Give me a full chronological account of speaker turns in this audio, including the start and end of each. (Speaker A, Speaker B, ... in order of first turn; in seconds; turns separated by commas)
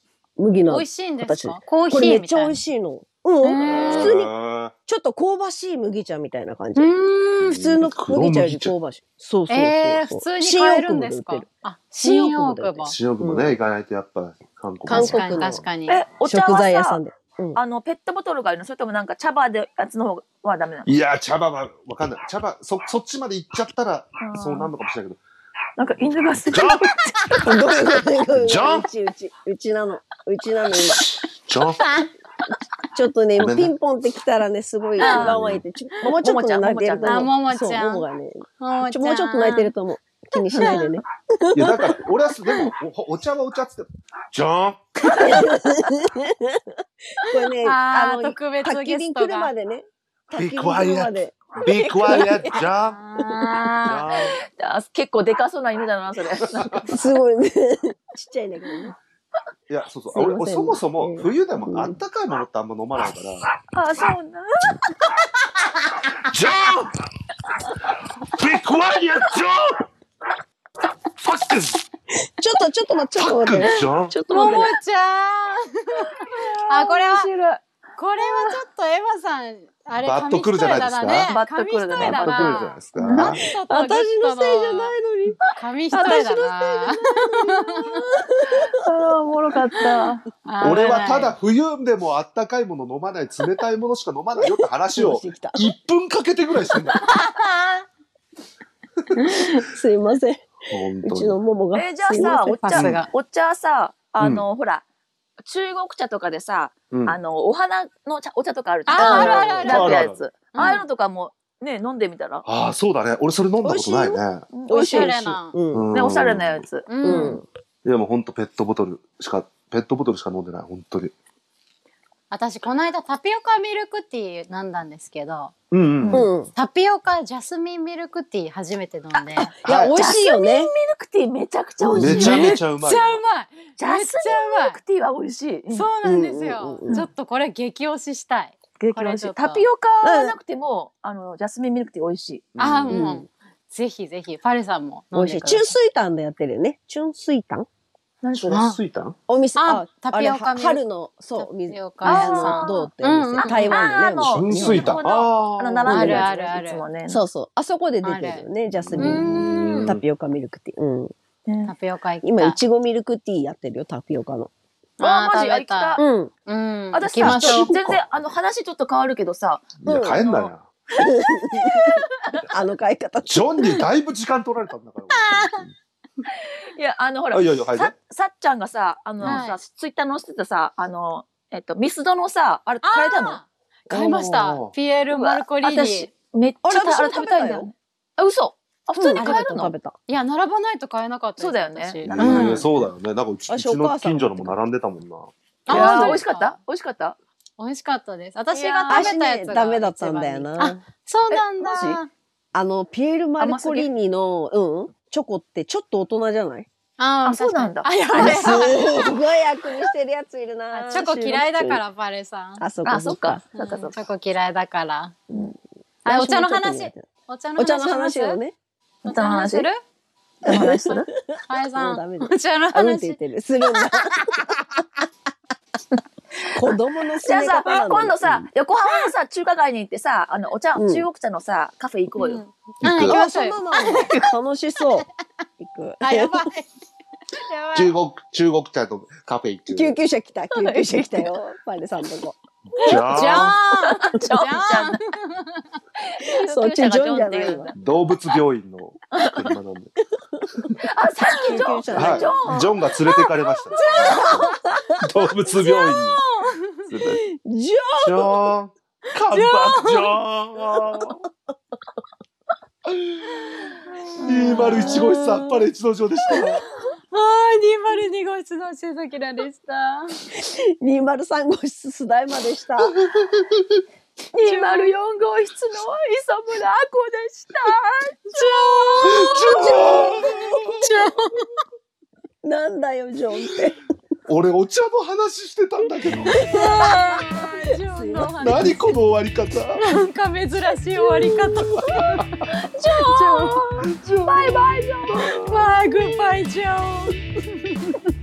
Speaker A: 0.4-4.3, Speaker B: 0.7-2.6, Speaker B: 3.4-4.2, Speaker C: 3.6-4.7, Speaker A: 4.8-6.9, Speaker B: 6.8-7.6, Speaker C: 7.4-8.7, Speaker A: 7.5-11.4, Speaker B: 9.5-13.0, Speaker A: 12.0-13.6, Speaker C: 12.8-15.6, Speaker A: 14.8-15.6, Speaker B: 14.9-16.0, Speaker D: 15.9-17.0, Speaker A: 16.2-17.6, Speaker D: 17.6-20.9, Speaker C: 20.9-25.2, Speaker D: 24.2-24.7, Speaker D: 25.8-27.5, Speaker C: 26.4-26.8, Speaker A: 27.4-31.1, Speaker C: 27.9-28.9, Speaker C: 30.9-31.8, Speaker B: 31.8-32.1, Speaker A: 32.9-42.0, Speaker C: 33.4-33.7, Speaker D: 35.0-35.4, Speaker C: 35.2-35.6, Speaker D: 36.0-37.3, Speaker B: 37.0-38.0, Speaker B: 38.6-39.7, Speaker B: 40.4-41.0, Speaker C: 41.5-44.9, Speaker A: 45.1-46.6, Speaker A: 47.2-52.6, Speaker B: 47.6-49.5, Speaker C: 50.3-53.0, Speaker B: 52.4-54.1, Speaker C: 53.8-54.4, Speaker D: 53.9-56.8, Speaker C: 56.5-56.8, Speaker A: 56.8-58.9, Speaker C: 59.7-63.4, Speaker A: 60.1-62.0, Speaker D: 63.7-64.7, Speaker C: 66.1-66.9, Speaker C: 68.2-69.8, Speaker C: 71.2-71.8, Speaker A: 72.4-74.7, Speaker C: 73.2-74.2, Speaker B: 74.3-76.1, Speaker D: 76.1-77.6, Speaker B: 76.7-77.3, Speaker B: 78.0-85.0, Speaker D: 78.2-78.6, Speaker C: 79.9-81.4, Speaker D: 81.2-83.5, Speaker C: 82.0-83.4, Speaker A: 83.2-85.4, Speaker B: 85.5-88.0, Speaker A: 85.9-88.7, Speaker D: 86.0-86.5, Speaker D: 88.5-90.2, Speaker B: 90.4-91.3, Speaker C: 90.6-97.0, Speaker A: 94.4-95.7, Speaker B: 97.0-97.8, Speaker B: 99.1-99.6, Speaker A: 99.6-102.6, Speaker C: 100.7-101.4, Speaker D: 101.7-104.8, Speaker B: 102.1-103.1, Speaker C: 102.6-103.0, Speaker C: 104.2-104.5, Speaker D: 105.4-112.4, Speaker C: 106.9-107.2, Speaker B: 108.9-110.0, Speaker A: 108.9-109.6, Speaker C: 109.4-110.2, Speaker B: 110.5-110.8, Speaker C: 112.5-114.5, Speaker A: 113.6-115.9, Speaker D: 114.5-115.1, Speaker B: 114.7-115.6, Speaker C: 115.7-116.7, Speaker D: 115.9-117.3, Speaker B: 116.9-117.4, Speaker A: 117.0-117.5, Speaker C: 117.8-121.1, Speaker B: 122.3-125.5, Speaker C: 125.7-126.3, Speaker D: 126.0-126.2, Speaker A: 126.1-126.5, Speaker B: 126.5-129.5, Speaker D: 129.1-132.6, Speaker A: 129.6-130.7, Speaker C: 129.6-130.0, Speaker A: 131.8-132.3, Speaker C: 132.0-133.2, Speaker B: 132.0-134.8, Speaker D: 133.8-135.9, Speaker B: 135.7-139.6, Speaker A: 136.0-137.1, Speaker D: 138.8-142.5, Speaker A: 140.0-140.4, Speaker C: 142.5-143.1, Speaker B: 142.6-145.7, Speaker A: 142.9-143.2, Speaker A: 145.1-147.7, Speaker D: 148.2-148.6, Speaker C: 148.3-149.2, Speaker B: 148.5-148.8, Speaker A: 149.3-155.0, Speaker B: 149.6-150.8, Speaker B: 151.3-153.9, Speaker D: 152.0-152.8, Speaker D: 153.4-157.2, Speaker C: 154.2-156.2, Speaker B: 155.9-156.8, Speaker A: 156.0-156.3, Speaker A: 157.1-159.3, Speaker B: 158.0-158.4, Speaker C: 158.8-160.0, Speaker B: 159.0-160.0, Speaker A: 159.8-161.1, Speaker D: 161.4-161.7, Speaker B: 161.6-162.6, Speaker A: 162.2-164.5, Speaker B: 165.0-167.7, Speaker D: 165.0-166.0, Speaker A: 166.0-166.3, Speaker D: 166.9-170.5, Speaker C: 167.2-168.3, Speaker C: 169.8-170.7, Speaker A: 169.8-170.2, Speaker A: 171.0-173.8, Speaker D: 171.6-171.9, Speaker C: 173.2-175.7, Speaker B: 175.2-175.6, Speaker D: 176.7-183.4, Speaker C: 177.3-177.9, Speaker B: 179.2-179.6, Speaker B: 182.8-186.1, Speaker C: 183.9-184.7, Speaker D: 185.1-185.4, Speaker A: 185.6-186.1, Speaker D: 186.3-189.7, Speaker A: 186.6-187.7, Speaker A: 188.9-189.9, Speaker B: 189.1-192.9, Speaker D: 191.4-192.8, Speaker C: 192.1-195.3, Speaker A: 193.5-194.6, Speaker B: 195.7-196.6, Speaker A: 195.7-196.2, Speaker D: 195.7-197.2, Speaker B: 197.6-202.1, Speaker D: 198.5-199.1, Speaker A: 198.9-200.8, Speaker D: 201.3-202.0, Speaker A: 202.5-206.7, Speaker D: 203.4-203.9, Speaker B: 207.0-208.8, Speaker D: 207.2-209.2, Speaker A: 208.1-211.8, Speaker B: 210.7-212.7, Speaker A: 212.6-213.9, Speaker D: 212.8-213.6, Speaker B: 213.6-215.1, Speaker D: 215.3-215.5, Speaker A: 216.0-217.1, Speaker B: 216.0-218.4, Speaker A: 217.6-218.6, Speaker B: 219.0-219.8, Speaker D: 219.0-219.7, Speaker D: 220.4-221.1, Speaker A: 220.4-224.7, Speaker B: 221.5-223.2, Speaker A: 226.5-228.5, Speaker D: 227.2-232.4, Speaker A: 230.8-231.1, Speaker B: 232.2-233.6, Speaker C: 232.8-233.2, Speaker A: 232.9-235.1, Speaker D: 233.7-234.3, Speaker A: 235.6-236.4, Speaker B: 236.0-236.7, Speaker B: 237.4-237.9, Speaker C: 237.7-240.0, Speaker A: 239.7-242.3, Speaker D: 240.5-241.3, Speaker C: 242.7-243.6, Speaker B: 242.8-245.6, Speaker D: 243.2-245.0, Speaker D: 246.0-247.7, Speaker A: 246.4-247.7, Speaker C: 247.8-249.9, Speaker D: 249.2-249.5, Speaker D: 250.9-252.8, Speaker A: 251.4-252.6, Speaker C: 251.5-256.2, Speaker B: 253.7-254.5, Speaker A: 254.0-255.0, Speaker B: 255.4-256.9, Speaker C: 256.9-257.2, Speaker A: 257.1-258.4, Speaker C: 258.0-261.2, Speaker B: 259.3-260.1, Speaker C: 262.9-263.5, Speaker C: 264.2-266.6, Speaker D: 264.3-265.0, Speaker A: 264.7-265.7, Speaker B: 267.1-270.2, Speaker A: 270.4-273.0, Speaker C: 273.0-273.6, Speaker D: 274.3-279.2, Speaker B: 274.4-274.9, Speaker B: 278.3-279.7, Speaker C: 279.0-280.9, Speaker A: 279.4-280.8, Speaker B: 280.8-281.4, Speaker A: 282.4-283.8, Speaker C: 284.3-286.4, Speaker A: 286.1-287.1, Speaker B: 286.2-289.1, Speaker D: 286.5-287.2, Speaker A: 287.9-288.3, Speaker C: 288.3-289.8, Speaker B: 289.8-292.2, Speaker C: 291.1-292.0, Speaker D: 292.1-295.3, Speaker B: 293.2-293.4, Speaker C: 293.8-295.7, Speaker B: 295.4-298.0